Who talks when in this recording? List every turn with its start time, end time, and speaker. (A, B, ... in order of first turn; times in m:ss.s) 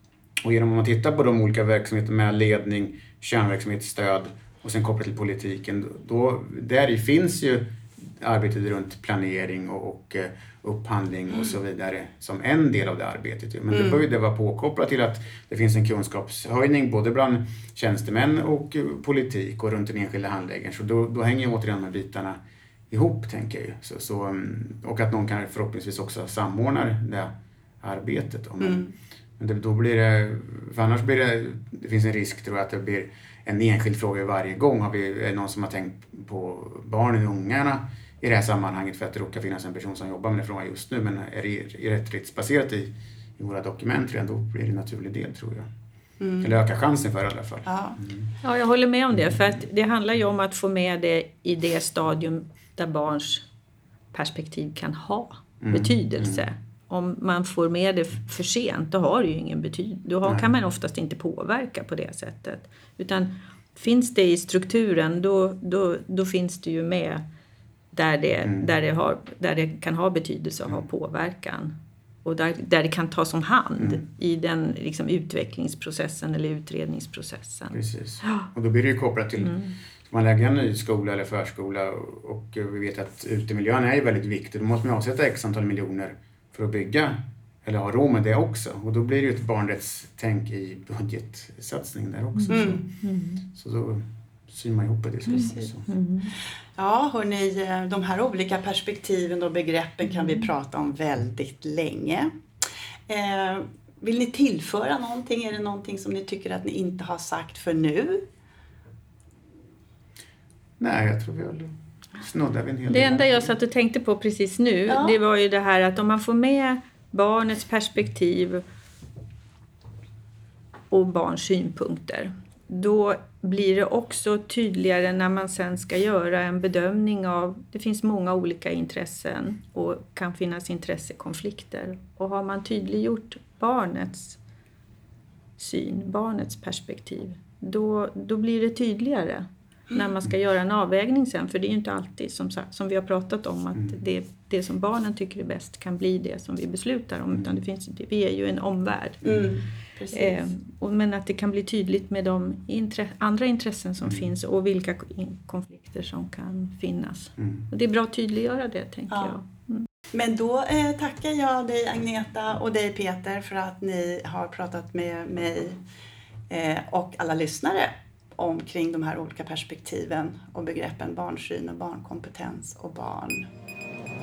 0:00.4-0:22.4 A
0:13.7-0:14.0 B
0:22.9-0:28.8 A
0:28.6-0:28.9 B
0:29.4-0:45.7 A
0:46.2-0:46.5 B
0:46.4-0:48.3 A
0:47.6-0:48.0 B
0:48.4-0:53.4 C
0:54.1-1:07.2 C
0:55.6-0:56.4 A
1:07.9-1:18.4 C
1:17.7-1:32.8 A
1:19.4-1:19.7 C
1:32.4-1:33.5 C
1:32.5-1:32.8 B
1:33.5-1:35.9 A
1:35.3-1:36.3 C
1:35.4-1:35.7 B
1:36.8-1:42.3 B
1:40.1-1:40.5 C
1:43.1-1:48.2 B
1:50.8-1:53.5 A
1:52.9-1:58.6 C
1:54.9-1:55.1 B
2:00.9-2:14.4 C
2:15.6-2:29.3 C
2:29.2-2:30.4 B
2:30.1-2:39.8 C
2:37.4-2:37.6 A
2:40.1-2:45.8 B
2:46.5-2:53.5 B